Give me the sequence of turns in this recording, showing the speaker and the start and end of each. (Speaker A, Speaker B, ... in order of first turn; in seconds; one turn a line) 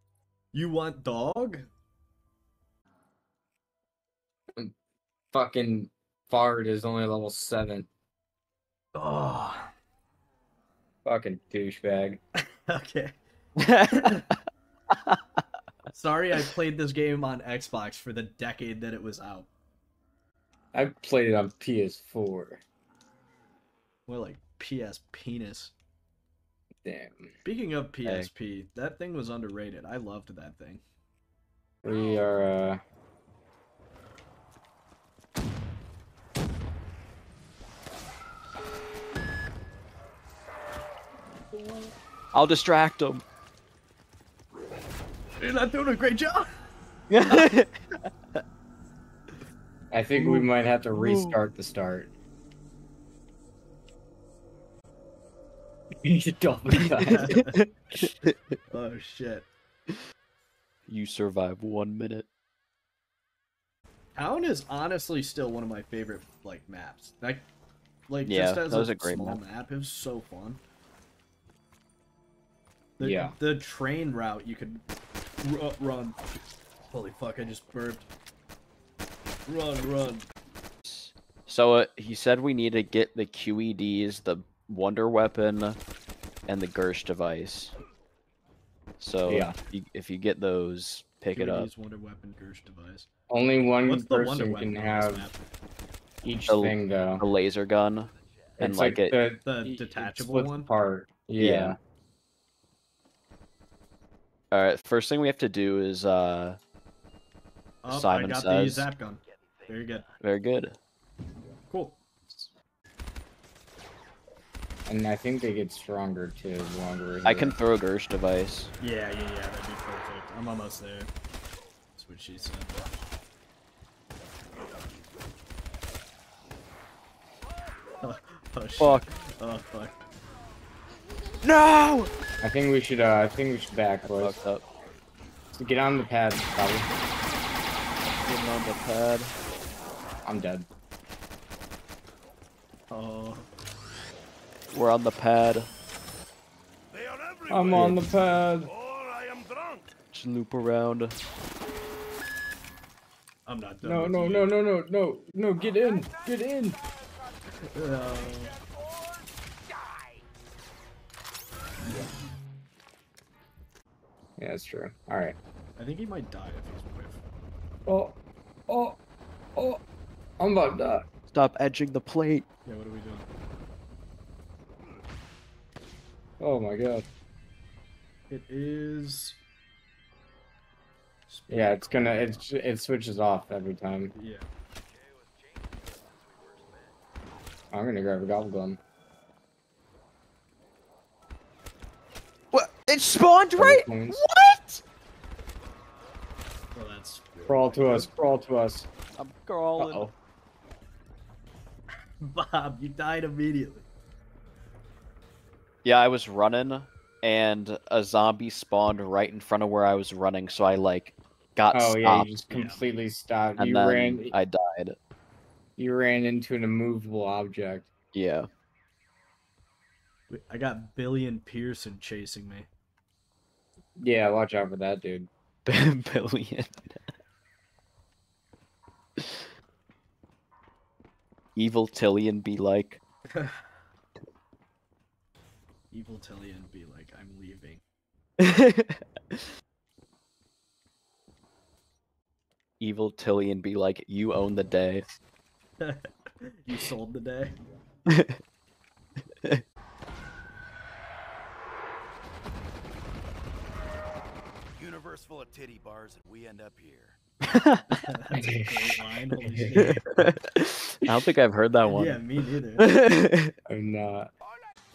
Speaker A: 0.5-1.7
Speaker B: 5.3-7.9
Speaker A: 8.9-9.7
Speaker B: 11.0-12.2
Speaker A: 12.7-13.2
Speaker C: 13.6-14.2
Speaker A: 14.0-14.2
Speaker A: 15.9-19.5
Speaker B: 20.7-22.6
Speaker A: 24.1-25.7
Speaker B: 26.8-27.3
Speaker A: 27.4-30.8
Speaker B: 31.8-32.8
Speaker C: 42.3-43.2
Speaker A: 45.4-46.5
Speaker C: 47.1-47.7
Speaker B: 49.9-52.1
Speaker C: 50.9-51.4
Speaker B: 56.0-57.3
Speaker A: 57.1-57.6
Speaker C: 58.0-58.3
Speaker A: 58.7-59.5
Speaker C: 60.9-62.3
Speaker A: 64.1-67.5
Speaker A: 68.1-70.6
Speaker C: 68.2-69.4
Speaker A: 73.0-74.8
Speaker B: 73.0-73.3
Speaker A: 75.4-76.2
Speaker A: 76.9-78.1
Speaker A: 79.5-80.3
Speaker C: 80.8-85.8
Speaker C: 86.5-87.7
Speaker C: 89.0-91.7
Speaker B: 89.3-89.5
Speaker A: 91.3-93.1
Speaker B: 93.3-95.2
Speaker A: 93.8-95.5
Speaker B: 96.2-97.2
Speaker C: 96.5-99.2
Speaker B: 98.6-101.8
Speaker A: 99.4-100.7
Speaker C: 101.4-101.8
Speaker C: 104.5-106.6
Speaker A: 107.8-110.0
Speaker C: 107.9-108.9
Speaker C: 110.2-110.8
Speaker A: 111.7-112.0
Speaker B: 114.9-117.5
Speaker C: 117.2-118.7
Speaker A: 118.8-121.1
Speaker A: 122.0-122.8
Speaker A: 128.0-130.0
Speaker C: 128.8-129.1
Speaker C: 131.4-132.1
Speaker B: 132.4-134.4
Speaker C: 134.0-134.6
Speaker B: 135.5-136.9
Speaker C: 138.1-139.3
Speaker B: 140.2-140.7
Speaker A: 142.9-143.5
Speaker C: 144.7-145.7
Speaker B: 147.5-148.7
Speaker C: 147.7-148.1
Speaker C: 150.1-151.2
Speaker A: 153.4-154.5
Speaker B: 153.8-156.8
Speaker A: 157.7-158.6
Speaker B: 164.4-165.3
Speaker A: 165.8-167.2
Speaker B: 167.9-169.0
Speaker B: 170.4-171.0
Speaker C: 171.3-172.4
Speaker A: 172.7-173.3
Speaker B: 176.4-177.0
Speaker A: 178.3-179.4
Speaker A: 181.3-182.4
Speaker B: 181.5-184.1
Speaker A: 184.1-184.4
Speaker D: 186.1-186.9
Speaker B: 187.7-188.8
Speaker C: 192.5-194.8
Speaker B: 193.6-194.2
Speaker A: 196.7-198.1
Speaker B: 197.5-198.9
Speaker C: 199.2-200.0
Speaker B: 199.8-200.1
Speaker A: 202.2-203.9
Speaker C: 205.8-212.3
Speaker B: 211.7-214.3
Speaker A: 212.5-212.8
Speaker C: 213.6-215.0
Speaker B: 215.8-217.9
Speaker C: 218.1-218.5
Speaker A: 220.3-222.7
Speaker B: 224.0-225.3
Speaker C: 225.7-227.1
Speaker C: 231.6-233.0
Speaker A: 233.3-233.7
Speaker A: 235.9-237.8
Speaker C: 238.4-239.4
Speaker C: 242.8-245.0
Speaker A: 245.8-247.6
Speaker C: 248.1-248.4
Speaker D: 254.8-257.1
Speaker C: 257.5-257.9
Speaker A: 257.9-260.0
Speaker C: 259.9-262.2
Speaker A: 261.8-262.8
Speaker C: 262.8-263.5
Speaker B: 263.7-264.3